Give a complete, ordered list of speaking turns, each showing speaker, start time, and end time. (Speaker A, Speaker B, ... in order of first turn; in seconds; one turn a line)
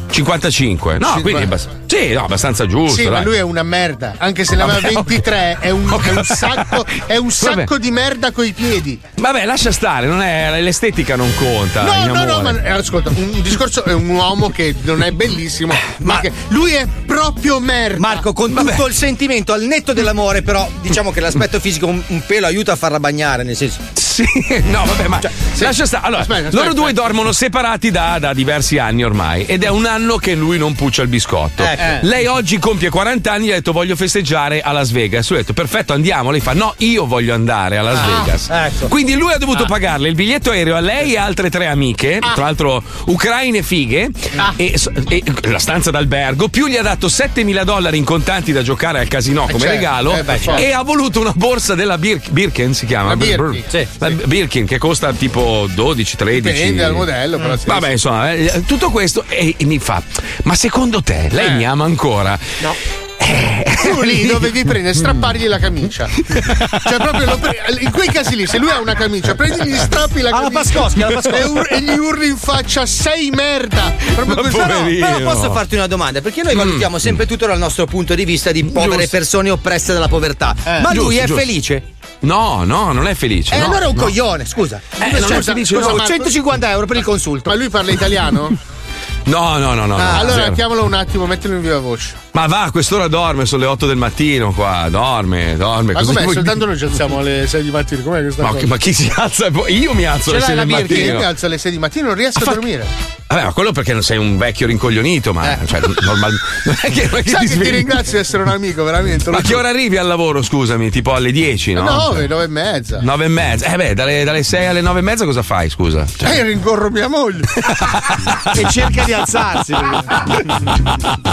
Speaker A: 0.1-3.3
Speaker B: 1.0-1.5
Speaker B: 2.9-9.0
Speaker A: 4.6-5.3
Speaker A: 5.9-7.7
Speaker A: 9.2-12.6
Speaker B: 11.8-18.2
Speaker C: 18.0-23.8
Speaker A: 18.5-18.8
Speaker A: 24.0-57.1
Speaker B: 25.5-27.0
Speaker C: 31.6-32.0
Speaker C: 37.9-38.9
Speaker B: 49.5-50.6
Speaker C: 50.2-50.6
Speaker B: 53.0-54.1
Speaker B: 56.3-57.9
Speaker A: 57.6-62.6
Speaker B: 61.4-61.6
Speaker A: 63.2-65.1
Speaker B: 63.8-66.2
Speaker A: 66.3-67.2
Speaker B: 66.8-75.0
Speaker C: 70.3-71.5
Speaker A: 74.0-75.6
Speaker C: 75.0-81.8
Speaker A: 76.5-77.1
Speaker A: 78.7-79.2
Speaker A: 80.9-81.5
Speaker A: 82.2-84.2
Speaker C: 83.5-87.5
Speaker A: 85.0-86.1
Speaker B: 85.0-86.3
Speaker B: 87.5-88.5
Speaker A: 89.3-90.6
Speaker C: 90.0-90.3
Speaker B: 90.1-92.2
Speaker A: 92.3-96.6
Speaker B: 95.9-98.7
Speaker A: 98.4-101.3
Speaker B: 100.3-102.9
Speaker A: 103.3-107.9
Speaker B: 107.2-109.6
Speaker A: 109.3-112.2
Speaker B: 111.8-113.0
Speaker A: 113.0-116.2
Speaker B: 116.2-117.5
Speaker A: 117.7-118.8
Speaker C: 118.5-120.2